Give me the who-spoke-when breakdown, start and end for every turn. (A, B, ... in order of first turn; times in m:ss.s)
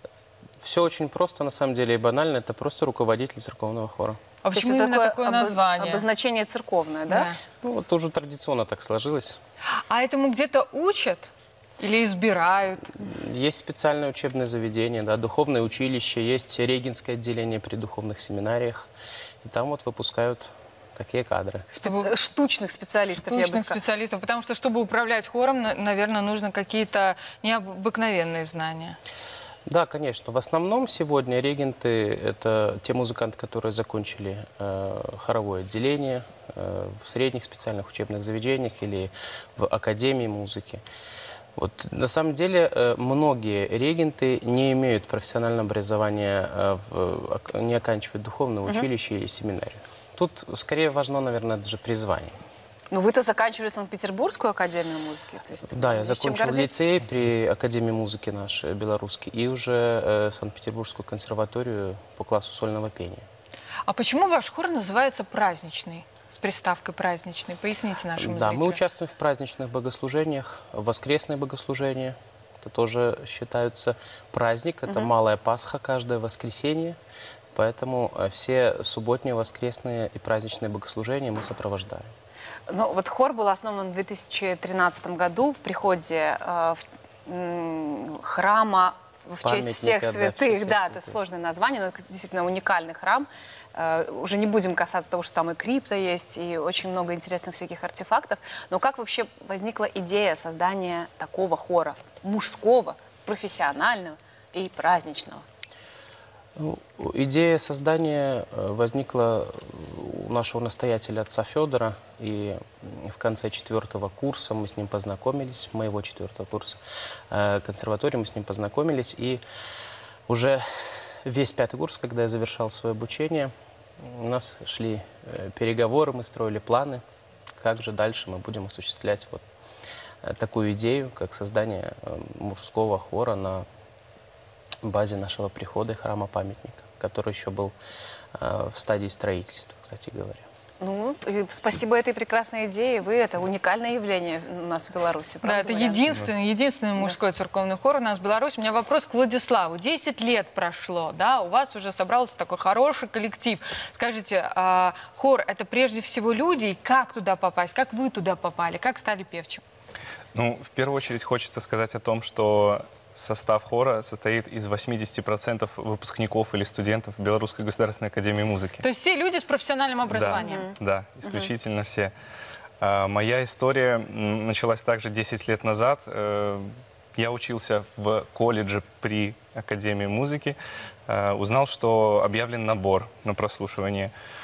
0:00.6-0:04.2 A
0:04.4-0:06.0 B
0:04.5-0:07.3 C
0:07.1-0:07.3 B
0:07.6-0:09.4 A
0:09.9-0:12.9 B
0:12.9-0:18.9 A
0:19.4-0:21.7 A
0:21.7-0:22.1 B
0:21.8-0:23.8 C
0:23.2-0:29.0 B
0:29.6-0:40.8 A
0:41.6-0:52.4 A
0:52.9-0:56.8 C
0:55.7-1:03.2 A
1:03.9-1:08.8 B
1:08.2-1:17.0 A
1:17.5-1:22.1 A
1:22.7-1:45.4 C
1:29.4-1:31.2 A
1:46.6-1:59.4 A
2:00.3-2:00.6 A
2:01.2-2:07.0 A
2:07.6-2:09.4 A
2:10.2-2:13.6 A
2:14.8-2:17.7 A
2:18.3-2:20.4 A
2:20.8-2:26.2 C
2:25.4-2:39.6 B
2:40.3-2:48.8 D
2:48.8-2:50.7 B
2:50.1-2:52.1 D
2:50.4-2:50.7 C
2:52.8-3:00.6 D
3:01.1-3:04.1 D